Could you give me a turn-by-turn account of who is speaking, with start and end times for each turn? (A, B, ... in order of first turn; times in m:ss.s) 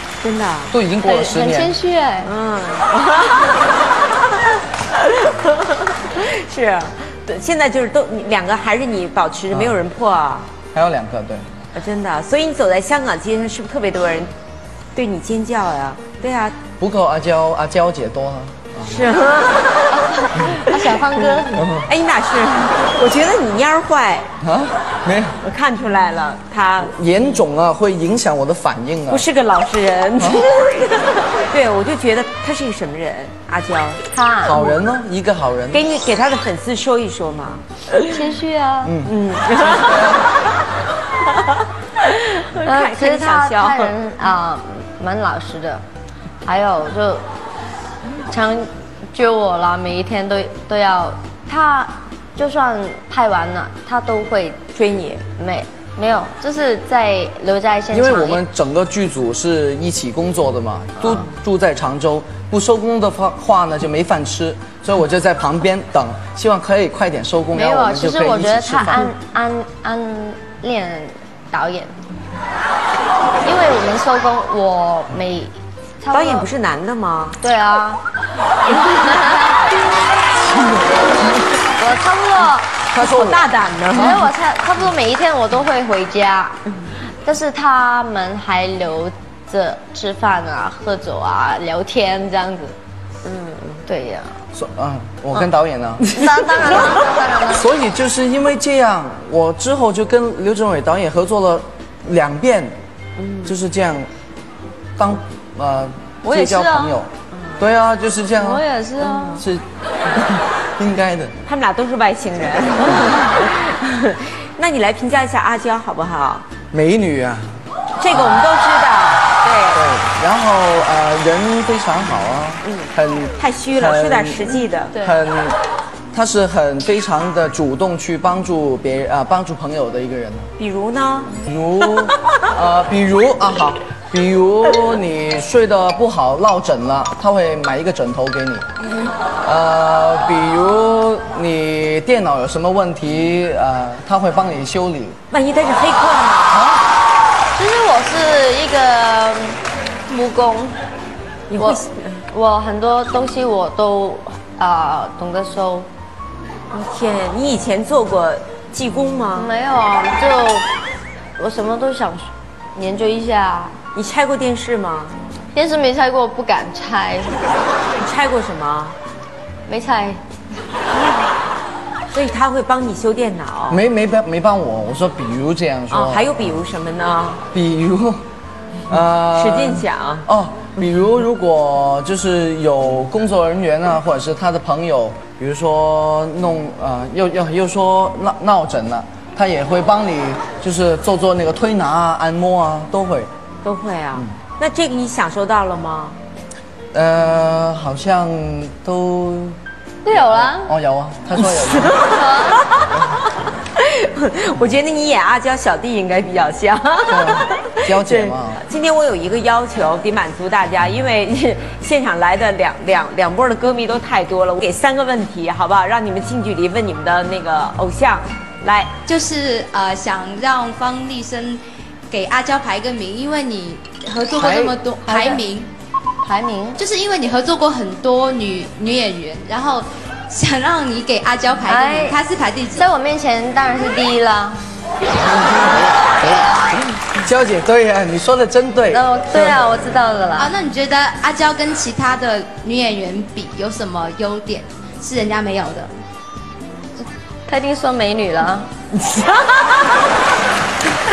0:00.2-0:00.8 A
0:00.7-0:01.7 B
0:01.0-0:02.3 C
0:02.2-0:10.5 A
0:10.7-0:11.5 B
0:11.7-0:14.3 A
0:15.0-0:16.6 A
0:16.8-0:19.1 B
0:18.8-0:21.2 A
0:20.2-0:21.6 C
0:21.5-0:21.9 B
0:21.8-0:24.3 A
0:24.4-0:25.4 B
0:25.4-0:27.4 A
0:26.9-0:29.3 B
0:29.1-0:34.0 A
0:30.2-0:30.4 B
0:34.1-0:34.7 C
0:34.4-0:35.8 B
0:35.7-0:38.1 A
0:38.1-0:39.0 C
0:38.8-0:39.1 B
0:39.0-0:40.4 A
0:41.3-0:43.9 A
0:42.6-0:45.8 C
0:46.4-0:47.3 C
0:48.2-0:54.6 C
0:54.7-0:55.2 A
0:55.4-0:58.4 C
0:57.9-1:09.1 B
1:07.5-1:12.0 C
1:13.4-1:16.5 C
1:16.1-1:17.4 A
1:17.4-1:18.0 C
1:18.7-1:19.6 C
1:21.8-1:22.7 C
1:22.9-1:24.3 A
1:23.0-1:23.5 B
1:23.9-1:26.6 C
1:27.2-1:32.8 C
1:33.2-1:33.8 A
1:33.9-1:34.4 C
1:34.6-1:42.8 B
1:36.1-1:37.7 C
1:43.2-1:43.5 A
1:43.4-1:44.1 B
1:45.0-1:48.6 B
1:46.2-1:47.0 C
1:47.3-1:47.6 A
1:48.4-1:49.4 C
1:49.0-1:49.4 A
1:49.4-1:51.4 B
1:51.4-1:56.5 A
1:56.7-1:57.6 B
1:58.0-1:59.8 A
1:58.1-1:58.4 B
1:59.7-2:05.6 B
2:02.6-2:05.1 A
2:06.1-2:10.5 B
2:10.6-2:12.2 A
2:11.4-2:18.7 B
2:19.4-2:25.2 B
2:25.3-2:26.6 A
2:26.5-2:26.8 B
2:27.6-2:30.8 C
2:31.5-2:32.3 A
2:31.6-2:35.9 C
2:36.7-2:39.5 A
2:39.4-2:40.7 C
2:41.4-2:43.8 C
2:44.0-2:45.2 A
2:45.5-2:47.4 C
2:48.0-2:49.0 A
2:49.7-2:50.2 C
2:52.1-2:53.8 A
2:53.7-2:56.6 B
2:55.9-2:57.4 A
2:57.5-2:58.2 B
2:58.9-3:13.3 B
2:58.9-3:00.3 A
3:13.6-3:16.2 A
3:16.9-3:22.1 B
3:20.0-3:20.7 C
3:21.4-3:23.2 A
3:22.1-3:22.6 C
3:22.9-3:23.2 B
3:23.8-3:39.0 A
3:27.1-3:28.6 B
3:39.1-3:45.7 D
3:44.4-3:44.7 B
3:45.0-3:45.4 C
3:46.2-3:46.8 C
3:46.8-3:52.9 D
3:51.7-3:52.2 C
3:52.7-3:54.6 C
3:55.4-3:55.8 B
3:57.2-3:59.6 B
3:58.9-4:00.5 C
4:00.4-4:05.9 D
4:07.0-4:08.7 C
4:09.0-4:10.0 A